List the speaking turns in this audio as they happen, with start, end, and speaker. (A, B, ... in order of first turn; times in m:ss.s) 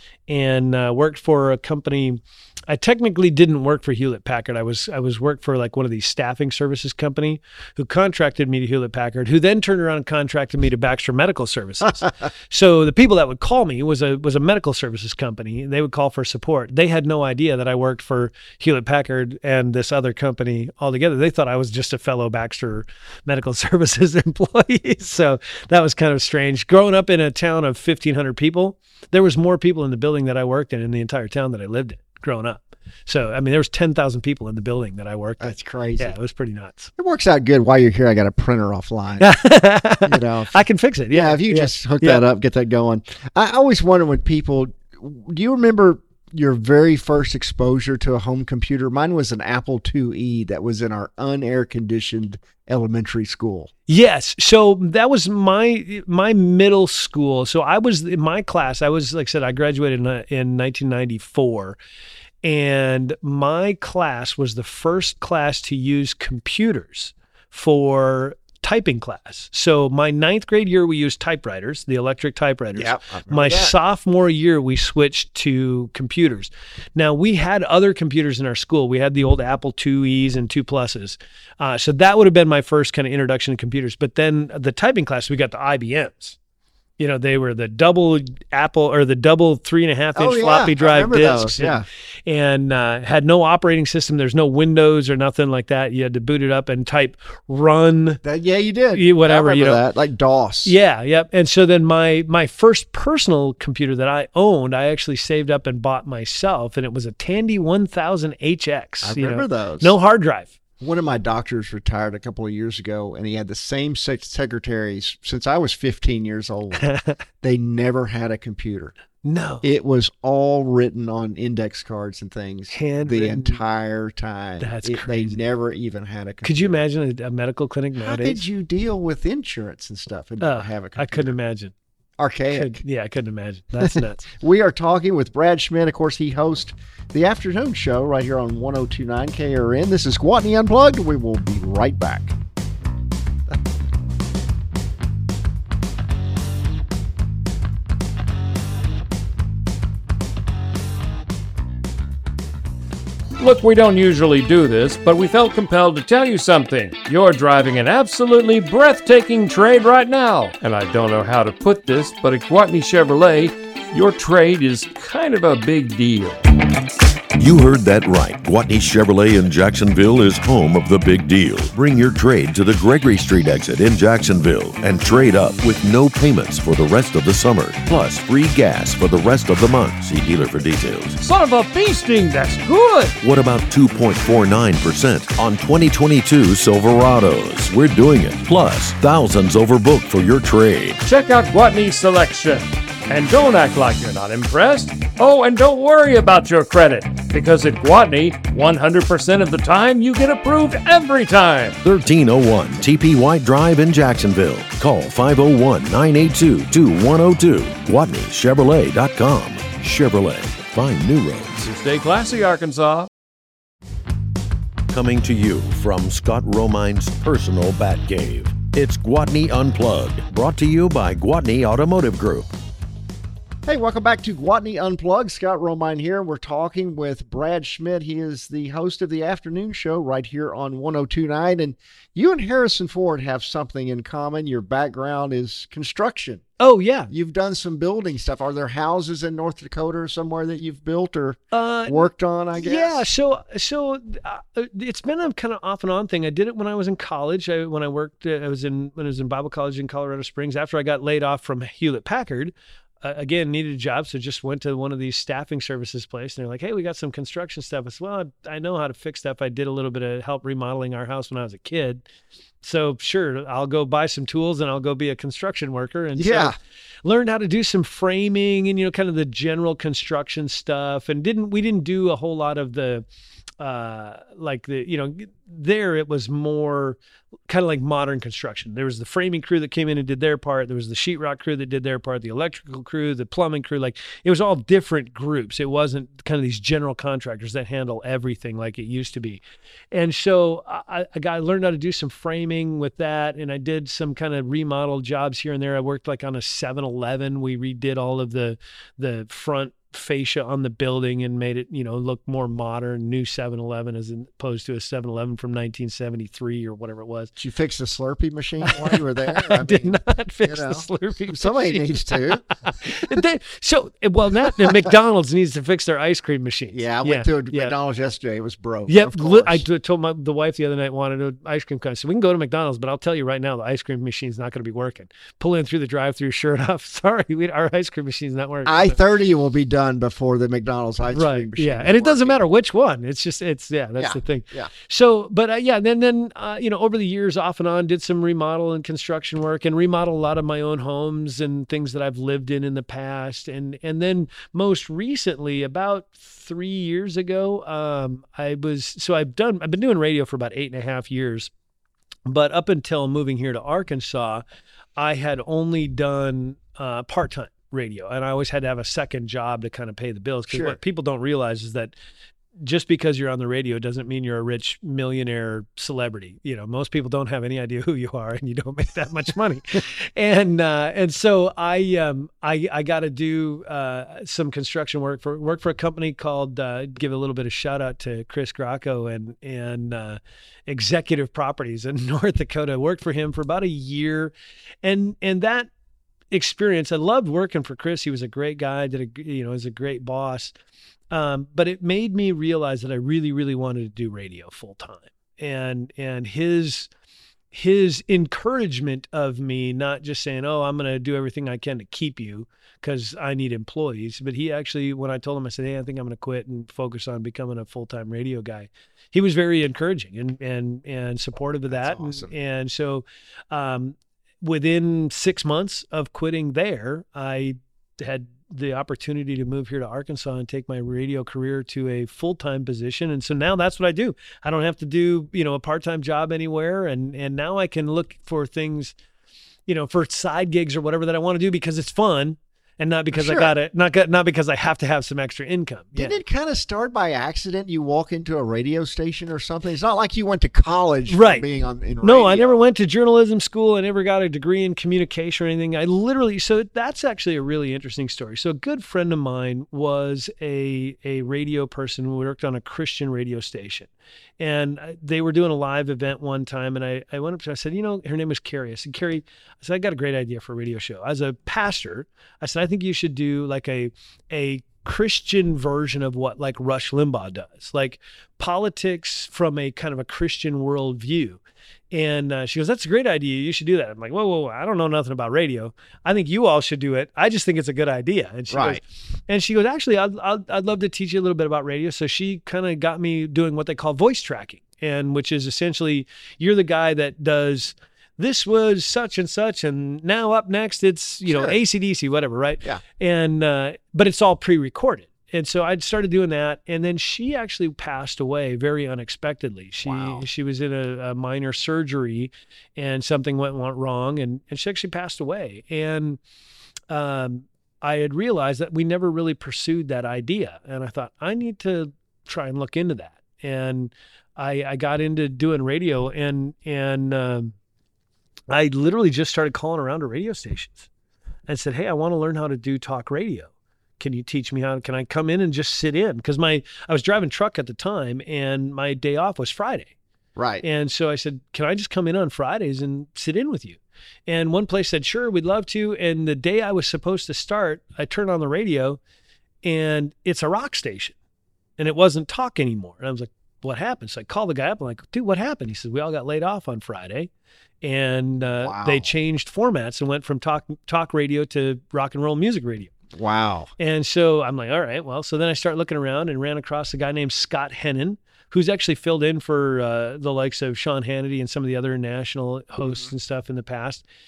0:00.3-0:36.9 A
0:35.4-0:36.1 B
0:37.0-0:39.3 B
0:39.2-0:42.2 A
0:40.0-0:40.6 B
0:41.1-0:53.7 B
0:53.9-1:01.8 A
1:02.4-1:26.4 A
1:12.8-1:13.7 B
1:27.0-1:38.2 A
1:30.2-1:31.8 B
1:38.2-1:40.8 B
1:38.9-1:39.8 A
1:40.6-1:50.5 A
1:49.0-1:50.0 B
1:50.8-1:56.9 B
1:56.7-1:57.2 A
1:57.4-1:58.9 B
1:59.2-1:59.6 A
1:59.6-2:06.8 B
2:02.7-2:03.6 A
2:04.6-2:05.4 A
2:06.4-2:08.4 A
2:08.0-2:11.3 B
2:10.4-2:11.7 A
2:12.2-2:12.8 B
2:12.5-2:14.3 A
2:13.8-2:22.4 B
2:33.4-2:46.4 C
2:47.4-3:01.2 D
3:01.2-3:03.2 C
3:03.2-3:11.0 D
3:11.0-3:21.8 C
3:21.8-3:31.7 D
3:31.6-3:33.1 C
3:34.9-3:42.5 D
3:43.7-3:56.4 B
3:56.6-3:57.1 A
3:57.1-4:03.0 B
4:01.5-4:22.0 A
4:22.6-4:33.0 A
4:26.2-4:26.6 B
4:33.6-5:07.3 A
5:07.4-5:12.4 B
5:08.6-5:17.7 A
5:16.7-5:19.6 B
5:18.9-5:29.0 A
5:28.6-5:32.4 B
5:31.1-5:51.5 A
5:34.0-5:34.7 B
5:52.3-5:54.4 A
5:55.0-6:01.9 A
6:00.5-6:00.8 B
6:02.6-6:25.7 A
6:26.3-6:30.6 A
6:31.1-6:36.9 A
6:37.5-7:09.0 A
6:51.7-6:52.3 B
7:09.7-7:16.2 A
7:13.1-7:13.5 B
7:16.0-7:22.6 B
7:21.1-7:21.4 A
7:22.0-7:51.4 A
7:51.9-8:26.2 A
7:58.5-7:58.8 B
8:11.3-8:11.6 B
8:19.8-8:20.3 B
8:26.9-8:37.6 A
8:38.5-8:40.9 A
8:41.5-8:49.9 A
8:50.4-8:50.6 B
8:50.6-8:59.0 A
8:59.6-9:01.2 A
9:01.8-9:07.3 A
9:07.8-9:12.9 A
9:08.6-9:09.1 B
9:13.1-9:13.7 B
9:13.8-9:24.0 A